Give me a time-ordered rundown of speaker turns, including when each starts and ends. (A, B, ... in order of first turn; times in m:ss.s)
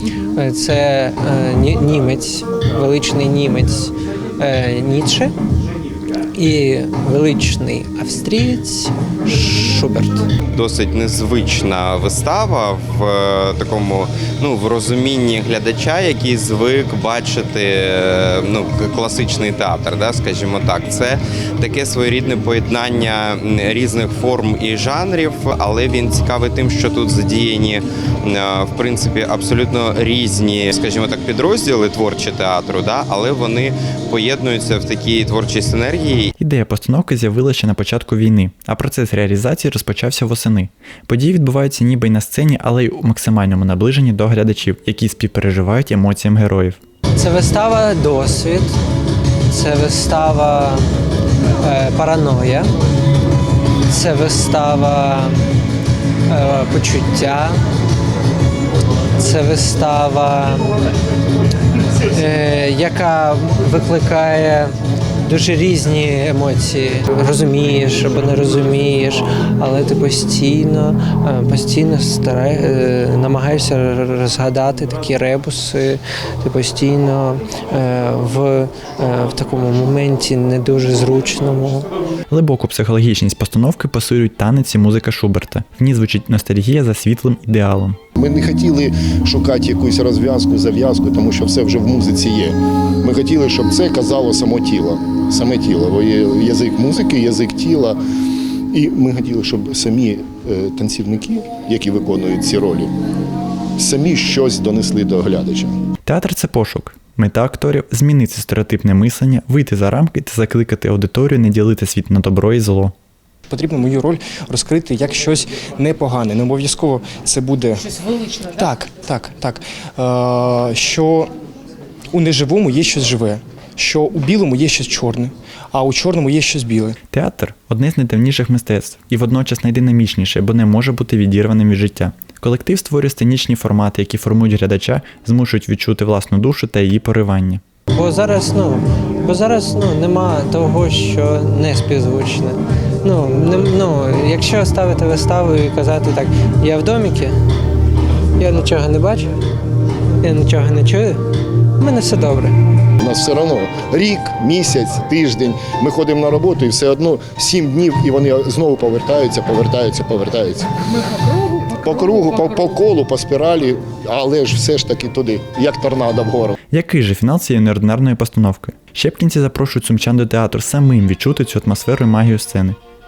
0:00.3-0:05.3 A
0:06.3-0:10.3 A
0:10.5-0:36.3 B
0:36.4-0:46.8 C
0:47.2-0:48.7 A
0:49.5-0:50.8 A
0:51.6-0:52.7 A
0:53.9-0:55.4 A
0:56.3-0:57.6 A
0:59.2-1:00.7 A
1:02.1-1:21.9 A
1:22.3-1:28.0 C
1:28.2-1:38.0 D
1:38.7-1:42.9 D
1:43.8-1:45.7 D
1:46.0-1:52.9 C
1:53.5-2:01.3 E
2:02.1-2:07.0 E
2:07.1-2:17.6 C
2:17.9-2:27.4 A
2:28.4-2:29.3 A
2:30.2-2:31.2 A
2:31.8-2:32.6 A
2:33.0-2:40.7 D
2:41.7-2:46.6 D
2:46.7-2:52.8 C